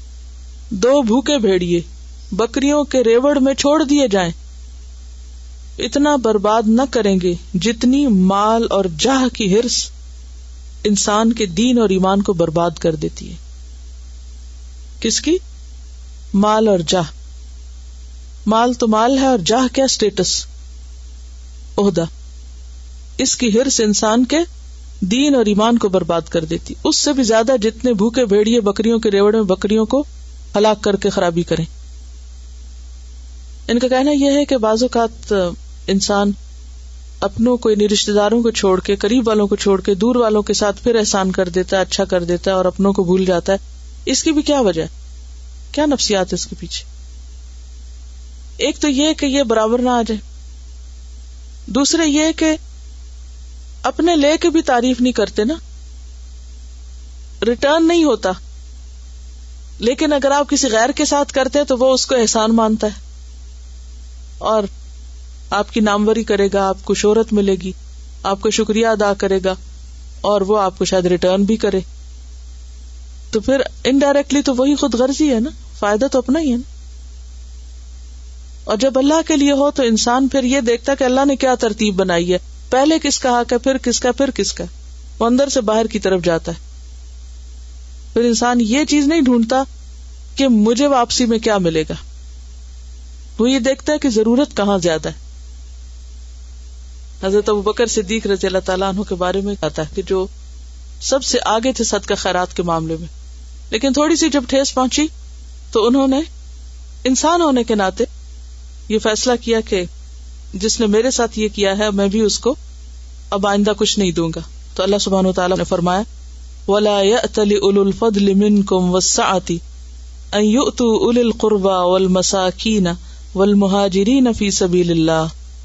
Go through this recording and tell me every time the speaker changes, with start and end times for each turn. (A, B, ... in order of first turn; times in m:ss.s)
0:00.7-0:04.3 A
0:05.8-0:09.9 A
0:10.8-0:13.4 A
0:15.0-0:15.4 A
0:16.4-0:17.1 A
0:18.4-0:20.5 A
0:21.8-0:22.1 A
0:23.2-0:24.4 A
0:25.0-0:31.7 A
0:33.7-0:36.3 A
0:37.2-0:44.9 A
0:45.7-0:46.9 A
0:48.6-0:50.2 A
0:51.7-0:52.6 A
0:53.8-0:55.6 A
0:57.4-0:58.4 A
0:59.8-1:03.0 A
1:04.4-1:04.7 A
1:05.5-1:07.7 A
1:08.2-1:09.6 A
1:10.2-1:11.8 A
1:13.3-1:16.6 A
1:18.7-1:24.7 A
1:25.2-1:26.6 A
1:28.1-1:29.6 A
1:30.4-1:32.0 A
1:33.4-1:35.2 A
1:37.2-1:40.3 A
1:41.0-1:43.1 A
1:43.7-1:45.1 A
1:45.7-1:46.3 A
1:47.0-1:48.1 A
1:48.9-1:49.9 A
1:50.6-1:52.6 A
1:53.3-1:56.0 A
1:56.7-1:59.6 A
2:00.3-2:05.3 A